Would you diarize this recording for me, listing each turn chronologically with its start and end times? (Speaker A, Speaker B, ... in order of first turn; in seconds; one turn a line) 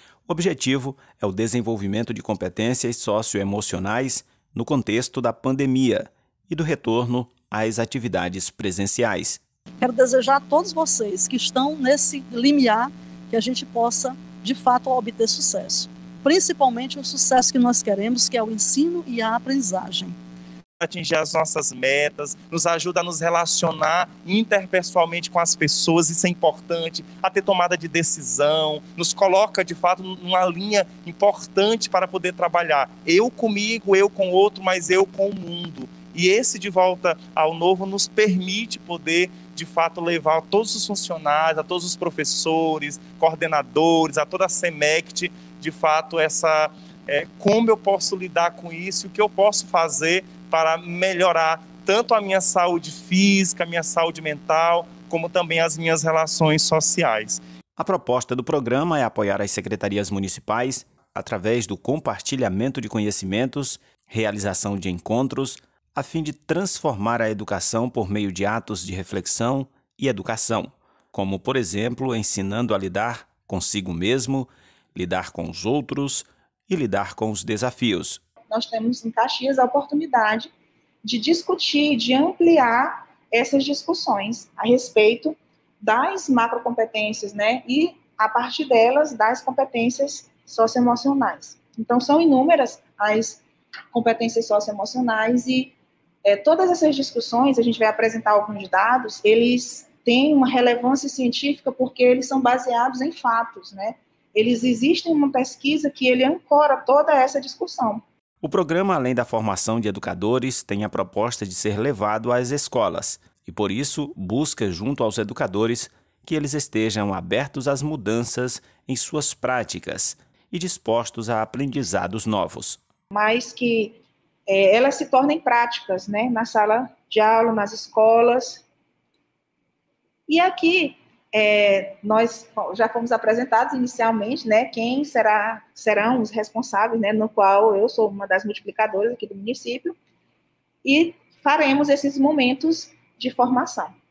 Speaker A: 0.3-9.4
Speaker B: 9.8-20.1
Speaker C: 20.8-57.4
Speaker A: 57.8-78.2
Speaker D: 78.5-80.5
Speaker D: 81.0-108.0
Speaker A: 108.4-122.8
Speaker D: 123.1-128.6
Speaker D: 130.3-139.9
Speaker D: 140.8-143.9